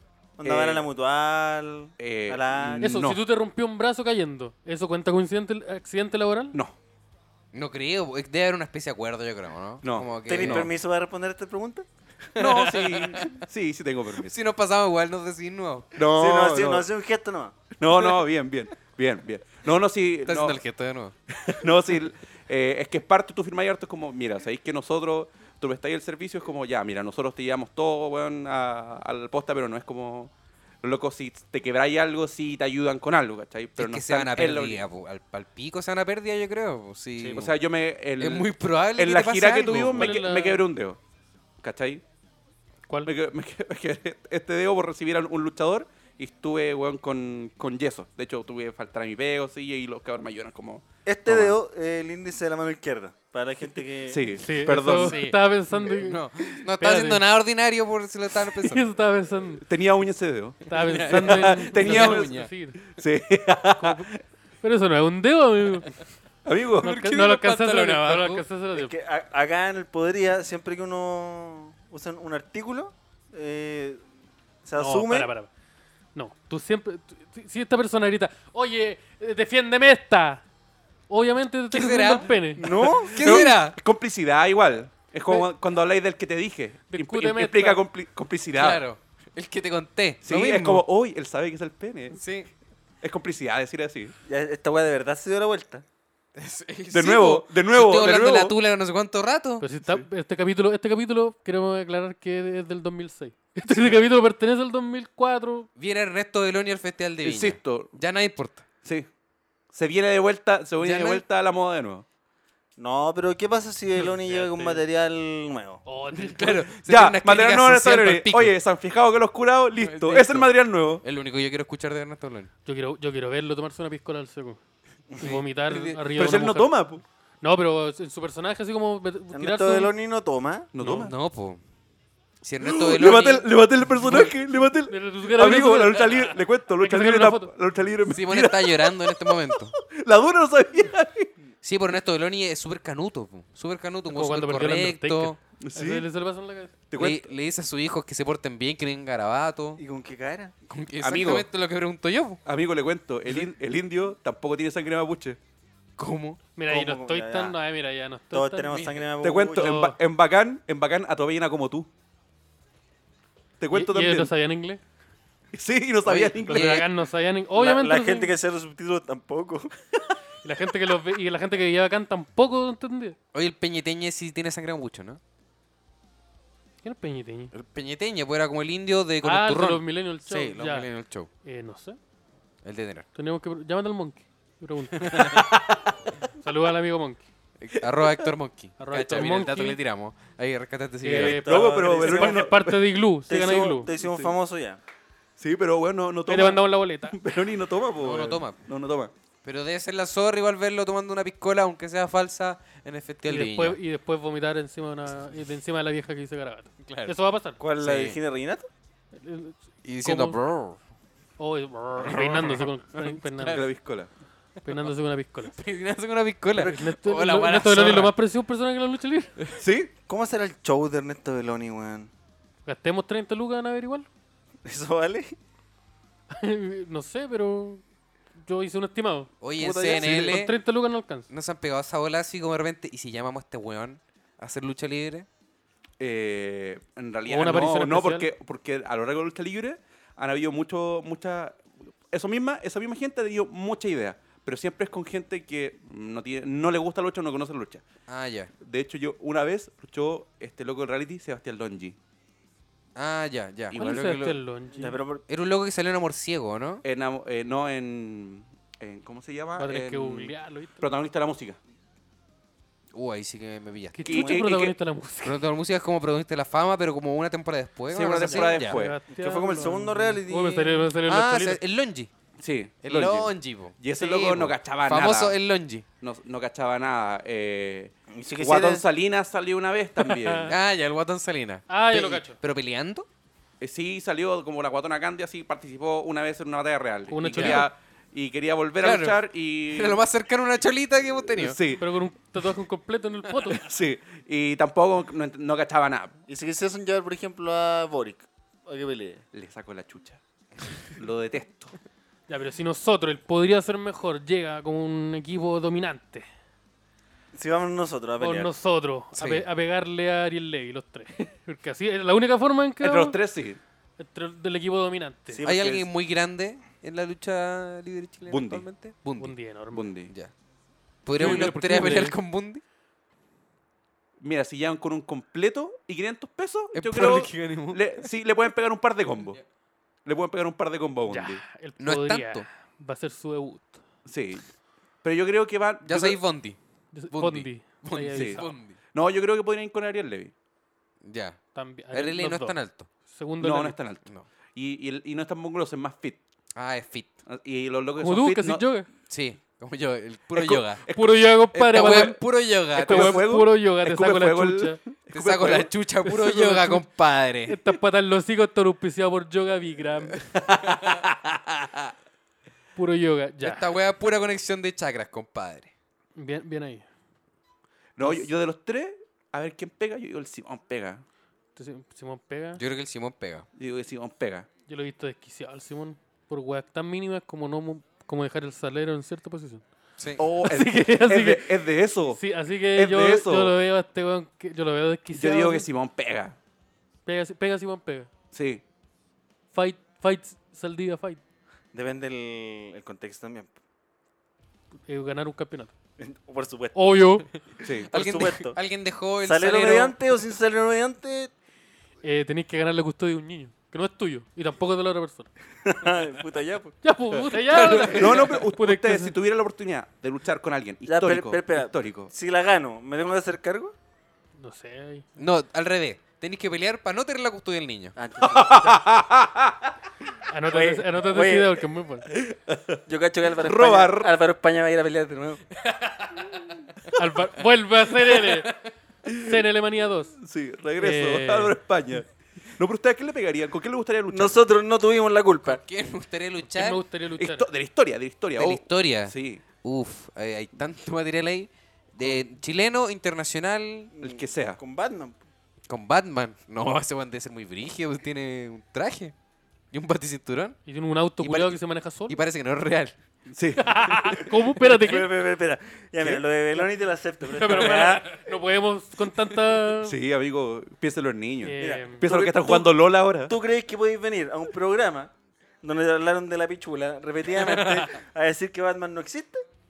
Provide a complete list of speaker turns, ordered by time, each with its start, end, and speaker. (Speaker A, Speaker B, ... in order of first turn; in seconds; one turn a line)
Speaker A: 0.4-2.9
Speaker B: 0.4-0.9
Speaker B: 2.0-3.2
Speaker C: 2.8-6.6
Speaker D: 7.5-10.7
Speaker B: 9.8-10.7
Speaker A: 10.3-11.9
Speaker D: 12.4-13.4
Speaker B: 12.4-14.4
Speaker D: 14.2-15.9
Speaker B: 15.9-16.9
Speaker A: 16.1-17.6
Speaker B: 17.8-20.6
Speaker D: 17.9-18.2
Speaker D: 20.3-21.1
Speaker B: 21.3-30.3
Speaker B: 30.8-34.9
Speaker D: 33.8-37.5
Speaker B: 37.3-41.0
Speaker D: 38.2-40.2
Speaker C: 39.9-40.6
Speaker B: 41.6-42.0
Speaker B: 43.0-51.5
Speaker A: 51.1-54.2
Speaker B: 54.1-55.3
Speaker C: 54.4-57.2
Speaker D: 54.9-58.9
Speaker C: 58.5-59.6
Speaker B: 59.6-62.4
Speaker D: 60.7-62.5
Speaker C: 60.7-62.8
Speaker B: 62.9-64.2
Speaker C: 63.8-65.9
Speaker B: 66.5-66.9
Speaker D: 66.8-68.5
Speaker C: 66.8-68.9
Speaker A: 68.8-74.0
Speaker A: 74.6-75.3
Speaker C: 74.8-75.5
Speaker C: 76.2-80.4
Speaker C: 81.1-82.7
Speaker D: 81.7-83.8
Speaker A: 82.6-83.4
Speaker B: 82.8-88.8
Speaker C: 86.9-87.8
Speaker D: 88.5-90.8
Speaker B: 90.2-92.2
Speaker D: 92.1-92.5
Speaker B: 93.0-94.1
Speaker A: 94.3-95.8
Speaker D: 96.4-99.7
Speaker B: 96.9-98.6
Speaker C: 99.6-105.7
Speaker B: 103.7-104.0
Speaker D: 105.8-108.7
Speaker B: 107.2-108.0
Speaker B: 109.7-112.0
Speaker D: 110.8-111.2
Speaker A: 112.8-115.8
Speaker C: 114.0-114.8
Speaker C: 115.9-116.6
Speaker D: 116.1-118.6
Speaker B: 116.8-121.0
Speaker D: 119.8-122.5
Speaker C: 122.7-124.6
Speaker C: 125.2-126.8
Speaker D: 125.2-126.0
Speaker B: 126.2-127.0
Speaker C: 127.4-129.9
Speaker A: 129.3-130.7
Speaker B: 130.7-131.2
Speaker C: 130.8-131.1
Speaker D: 130.9-131.6
Speaker D: 132.4-133.5
Speaker B: 132.6-141.3
Speaker D: 134.0-134.3
Speaker C: 134.9-137.5
Speaker D: 138.1-139.8
Speaker D: 141.6-145.4
Speaker C: 144.1-146.7
Speaker B: 145.6-146.1
Speaker B: 146.9-147.3
Speaker D: 147.0-149.8
Speaker A: 149.8-150.5
Speaker D: 150.7-152.4
Speaker B: 151.0-151.5
Speaker B: 152.5-155.4
Speaker D: 156.0-156.4
Speaker C: 156.6-159.0
Speaker A: 156.7-157.6
Speaker A: 158.3-159.8
Speaker B: 159.2-161.9
Speaker C: 159.6-159.9
Speaker B: 163.6-164.3
Speaker C: 163.7-164.8
Speaker B: 165.5-166.9
Speaker D: 166.1-166.9
Speaker C: 166.5-168.3
Speaker A: 167.6-169.8
Speaker C: 170.4-173.2
Speaker D: 173.3-175.2
Speaker C: 176.8-177.5
Speaker D: 177.5-181.3
Speaker C: 179.2-180.9
Speaker C: 181.4-182.0
Speaker D: 182.6-183.1
Speaker C: 183.2-185.4
Speaker D: 184.9-185.5
Speaker B: 185.3-185.8
Speaker C: 186.3-187.2
Speaker D: 187.6-191.5
Speaker C: 188.8-189.8
Speaker C: 191.0-193.9
Speaker A: 191.2-192.5
Speaker B: 191.2-192.8
Speaker A: 193.3-194.8
Speaker B: 194.0-194.3
Speaker B: 195.4-199.1
Speaker C: 196.3-197.2
Speaker D: 198.0-198.6
Speaker D: 199.4-203.8
Speaker C: 203.3-207.6
Speaker D: 206.8-207.2
Speaker A: 207.6-208.7
Speaker D: 207.8-208.2
Speaker C: 209.1-210.4
Speaker D: 209.8-210.8
Speaker C: 211.4-213.6
Speaker D: 212.0-213.7
Speaker B: 213.4-214.1
Speaker C: 214.6-215.5
Speaker D: 215.5-218.2
Speaker C: 216.6-219.3
Speaker B: 219.6-219.9
Speaker A: 220.1-222.1
Speaker C: 222.7-224.1
Speaker A: 224.7-225.4
Speaker C: 226.3-227.8
Speaker C: 228.4-229.3
Speaker D: 229.4-230.5
Speaker A: 229.6-230.2
Speaker C: 229.9-231.3
Speaker B: 230.0-230.3
Speaker D: 231.3-235.3
Speaker B: 236.0-247.8
Speaker C: 237.3-238.3
Speaker D: 248.1-248.5
Speaker B: 248.6-252.0
Speaker D: 252.9-254.4
Speaker C: 253.7-255.0
Speaker A: 254.7-255.2
Speaker D: 255.3-256.8
Speaker B: 256.8-261.6
Speaker C: 259.6-260.9
Speaker D: 262.9-264.3
Speaker C: 263.9-265.4
Speaker B: 264.0-264.8
Speaker D: 265.2-268.8
Speaker B: 267.9-269.0
Speaker C: 268.2-271.6
Speaker A: 269.1-270.9
Speaker D: 271.1-272.1
Speaker B: 272.4-275.4
Speaker D: 272.8-275.9
Speaker B: 276.0-280.5
Speaker A: 278.1-278.9
Speaker C: 280.0-280.5
Speaker D: 280.5-283.1
Speaker C: 281.7-282.4
Speaker B: 283.6-290.0
Speaker C: 287.1-287.7
Speaker D: 287.2-287.7
Speaker D: 288.8-291.6
Speaker B: 291.4-291.9
Speaker C: 291.7-293.6
Speaker B: 293.6-296.2
Speaker A: 296.3-299.2
Speaker B: 299.3-300.2
Speaker B: 300.9-301.8
Speaker C: 302.3-306.3
Speaker A: 307.3-308.5
Speaker C: 308.2-313.2
Speaker D: 309.2-309.5
Speaker B: 312.8-313.6
Speaker C: 314.0-315.4
Speaker A: 315.3-315.9
Speaker D: 315.4-319.4
Speaker B: 318.3-318.7
Speaker C: 319.2-319.9
Speaker B: 319.7-320.1
Speaker D: 321.1-322.6
Speaker B: 321.1-322.1
Speaker C: 321.2-322.1
Speaker B: 324.2-329.4
Speaker D: 326.7-328.1
Speaker B: 330.1-331.4
Speaker C: 331.1-333.8
Speaker D: 331.8-332.5
Speaker B: 334.1-334.4
Speaker B: 335.0-336.2
Speaker D: 335.9-336.6
Speaker C: 336.9-338.5
Speaker D: 337.1-338.8
Speaker B: 338.1-340.3
Speaker D: 341.0-341.4
Speaker C: 341.6-343.8
Speaker D: 341.9-342.9
Speaker B: 343.4-344.0
Speaker B: 344.6-346.2
Speaker D: 346.6-347.2
Speaker B: 347.3-348.7
Speaker C: 348.0-348.9
Speaker D: 349.1-350.8
Speaker B: 350.3-352.2
Speaker C: 350.9-352.2
Speaker D: 351.7-353.2
Speaker C: 352.7-354.8
Speaker B: 352.7-355.7
Speaker D: 355.1-357.6
Speaker C: 356.1-356.9
Speaker C: 357.5-360.2
Speaker B: 360.4-361.2
Speaker D: 360.6-361.1
Speaker C: 362.8-363.7
Speaker D: 363.4-365.7
Speaker C: 366.2-366.9
Speaker B: 368.0-371.0
Speaker C: 368.0-368.3
Speaker C: 371.6-372.6
Speaker D: 372.6-373.5
Speaker B: 373.6-374.5
Speaker C: 374.7-379.6
Speaker D: 380.0-380.2
Speaker B: 380.2-382.2
Speaker C: 380.4-381.6
Speaker C: 382.1-385.7
Speaker B: 382.7-383.5
Speaker B: 385.1-386.4
Speaker C: 387.1-388.1
Speaker B: 388.3-388.6
Speaker C: 389.5-391.2
Speaker A: 391.7-393.6
Speaker C: 394.9-395.7
Speaker A: 396.0-396.9
Speaker C: 396.8-397.3
Speaker B: 397.6-397.9
Speaker A: 397.6-398.6
Speaker D: 397.9-400.0
Speaker A: 399.2-401.3
Speaker C: 402.0-405.3
Speaker A: 405.6-406.8
Speaker C: 406.8-409.1
Speaker D: 407.3-408.5
Speaker B: 407.8-412.1
Speaker A: 410.9-413.7
Speaker C: 414.4-415.1
Speaker D: 415.2-417.9
Speaker A: 418.0-418.7
Speaker B: 418.2-419.7
Speaker C: 420.3-422.1
Speaker A: 420.5-421.6
Speaker B: 422.1-424.1
Speaker A: 422.9-425.4
Speaker D: 425.6-426.8
Speaker C: 426.9-428.5
Speaker D: 427.4-428.7
Speaker C: 429.1-430.2
Speaker B: 430.2-434.4
Speaker C: 430.8-431.6
Speaker A: 434.1-435.6
Speaker D: 435.4-436.8
Speaker C: 436.5-437.5
Speaker B: 437.2-439.4
Speaker D: 438.4-443.9
Speaker A: 444.0-445.2
Speaker B: 444.0-444.6
Speaker D: 445.7-449.1
Speaker D: 449.7-450.6
Speaker C: 450.7-452.2
Speaker D: 451.2-452.9
Speaker B: 453.3-454.2
Speaker C: 453.6-455.1
Speaker A: 454.6-458.1
Speaker C: 457.3-460.0
Speaker B: 459.8-463.3
Speaker C: 461.4-462.0
Speaker A: 461.6-465.1
Speaker A: 465.6-469.4
Speaker D: 467.3-467.9